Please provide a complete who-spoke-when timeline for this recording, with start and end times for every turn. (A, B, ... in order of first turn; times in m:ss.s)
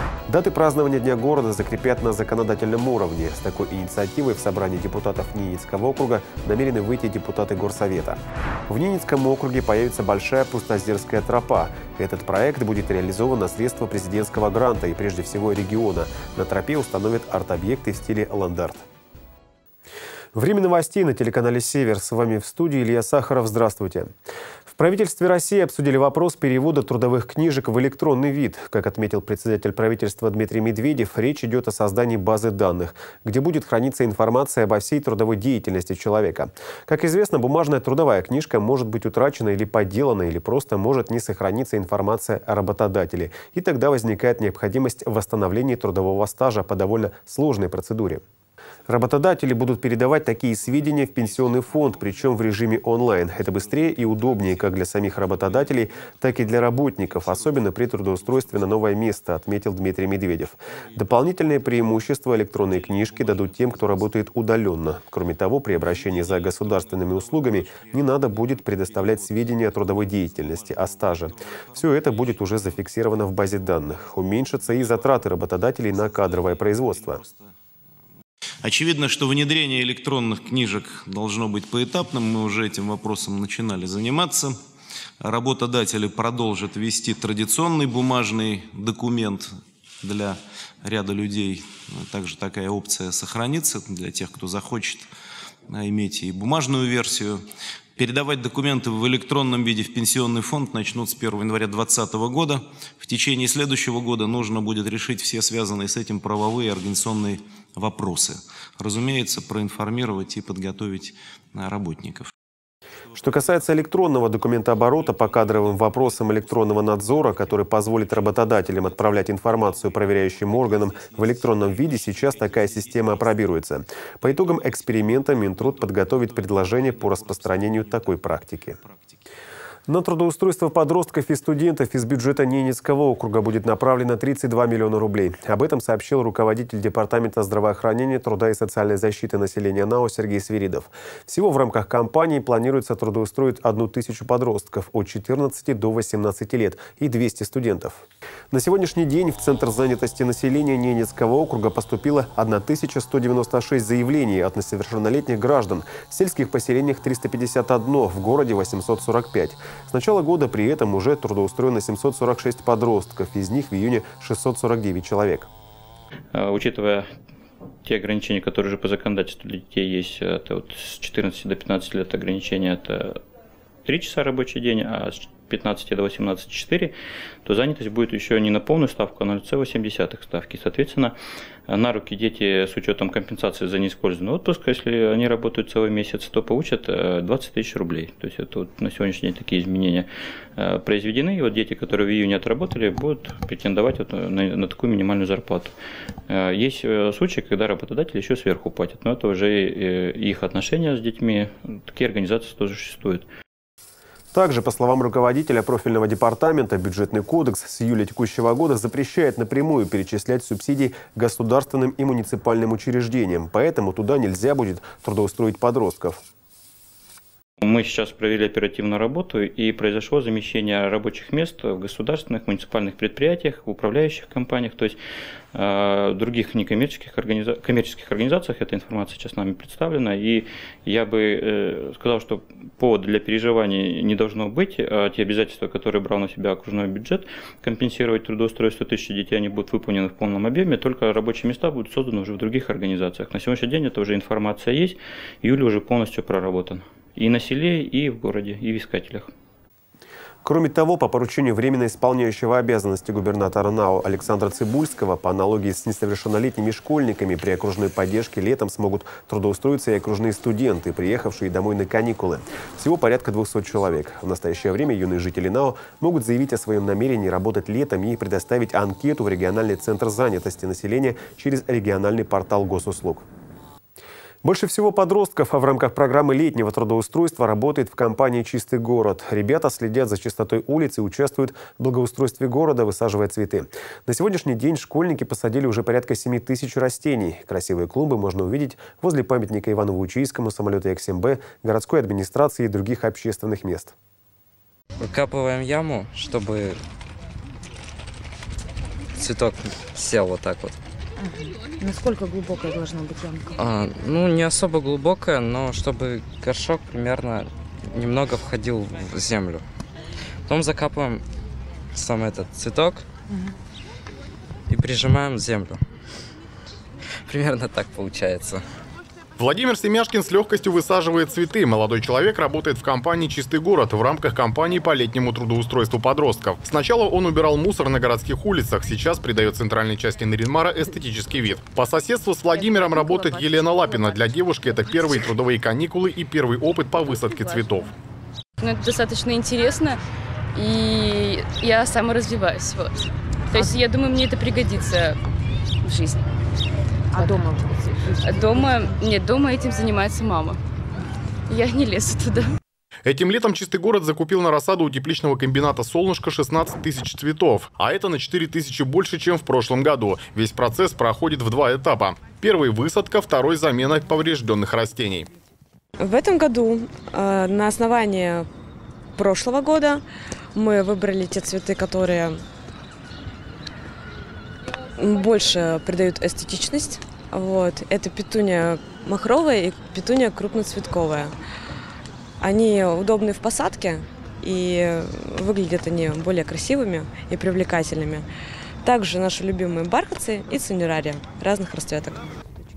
0:00.3-0:18.8 A
0:20.3-0:24.1 A
0:24.7-0:48.2 A
0:48.9-1:17.2 A
1:07.2-1:08.1 B
1:08.8-1:12.6 B
1:16.2-1:17.4 B
1:18.6-1:24.6 B
1:25.2-1:29.5 B
1:30.0-1:35.1 B
1:35.7-1:37.4 B
1:38.0-1:52.3 B
1:53.2-2:08.8 A
2:01.5-2:02.3 B
2:07.0-2:07.8 B
2:09.9-2:45.5 A
2:46.3-2:47.0 C
2:47.8-2:53.2 C
2:53.9-2:56.9 C
2:57.4-3:01.2 C
3:01.7-3:15.7 C
3:16.3-3:23.3 C
3:24.3-3:36.2 A
3:37.6-3:45.0 C
3:45.5-4:09.3 C
4:10.4-4:33.2 A
4:34.4-4:53.9 A
4:55.0-4:56.8 D
4:59.2-5:00.8 D
5:01.2-5:03.5 E
5:03.6-5:09.6 D
5:10.5-5:11.2 D
5:11.9-5:13.0 D
5:14.7-5:15.8 D
5:17.3-5:18.6 D
5:19.4-5:37.9 F
5:32.5-5:35.0 G
5:37.1-5:37.8 G
5:38.6-5:40.0 G
5:40.6-5:45.2 G
5:45.8-5:46.2 G
5:47.1-5:49.0 E
5:47.2-5:47.4 G
5:48.2-5:50.6 G
5:51.5-5:52.5 G
5:53.1-6:05.3 F
6:06.0-6:08.5 H
6:09.2-6:10.0 H
6:10.6-6:12.4 H
6:15.0-6:21.4 H
6:22.4-6:28.3 H
6:28.8-6:32.4 H